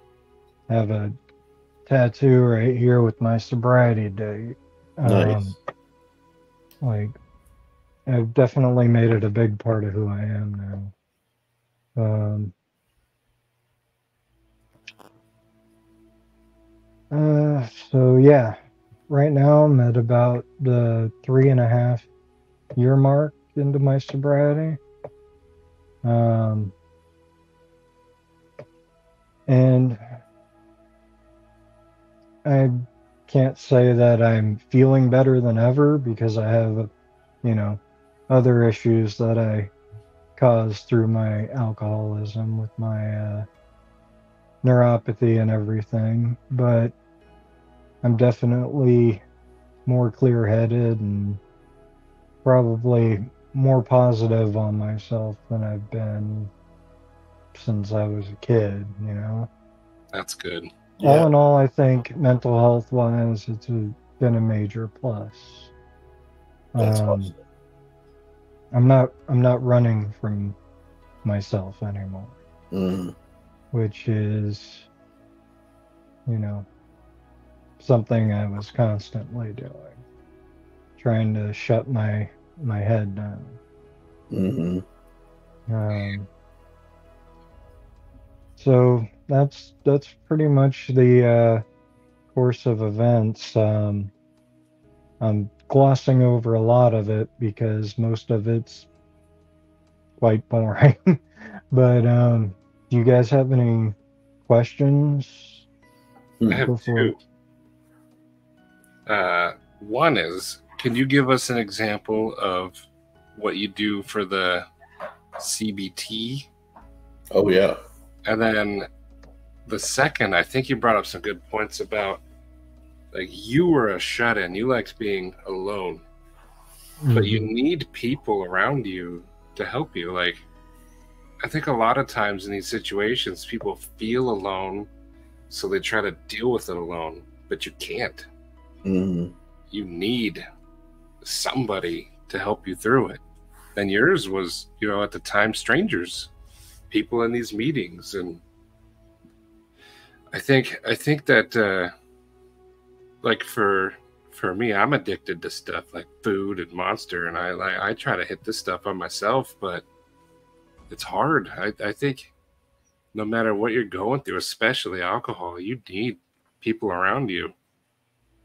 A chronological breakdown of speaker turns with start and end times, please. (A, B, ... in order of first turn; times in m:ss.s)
0:00.7-0:01.2 A
0:01.9-0:05.6 A
0:05.0-0:05.5 B
0:06.8-0:07.2 A
0:08.1-0:10.9 A
0:12.0-0:12.5 A
0:17.1-0:18.6 A
0:19.1-0:22.1 A
0:22.8-0:24.8 A
0:26.0-0:26.7 A
0:29.5-0:30.2 A
0:32.4-0:36.9 A
0:37.4-0:39.7 A
0:40.4-0:43.5 A
0:44.6-0:46.9 A
0:48.0-0:49.2 A
0:49.9-0:51.4 A
0:52.4-0:56.5 A
0:57.5-0:59.5 A
1:00.1-1:00.7 C
1:01.0-1:01.3 B
1:01.0-1:05.7 A
1:06.7-1:07.3 A
1:06.8-1:07.4 B
1:08.7-1:10.6 A
1:11.2-1:12.4 A
1:12.7-1:13.2 B
1:13.7-1:14.9 A
1:16.3-1:16.7 A
1:17.8-1:20.0 A
1:21.0-1:23.6 A
1:24.3-1:24.8 B
1:25.7-1:26.3 A
1:28.6-1:31.6 A
1:32.3-1:34.1 A
1:35.2-1:38.9 A
1:40.2-1:44.0 A
1:44.5-1:45.6 A
1:46.4-1:46.7 B
1:46.5-1:47.2 C
1:46.5-1:47.2 A
1:49.1-1:54.7 C
1:55.4-1:56.5 C
1:57.3-1:57.8 B
1:58.2-1:58.9 C
1:59.7-2:02.2 C
2:03.1-2:06.0 C
2:07.0-2:07.5 A
2:07.2-2:10.4 C
2:11.4-2:14.9 C
2:15.5-2:18.3 C
2:18.8-2:19.3 B
2:19.7-2:20.4 C
2:21.2-2:23.2 C
2:23.8-2:26.3 C
2:26.9-2:28.4 C
2:30.3-2:31.9 C
2:33.2-2:39.8 C
2:40.9-2:42.3 C
2:43.1-2:47.5 C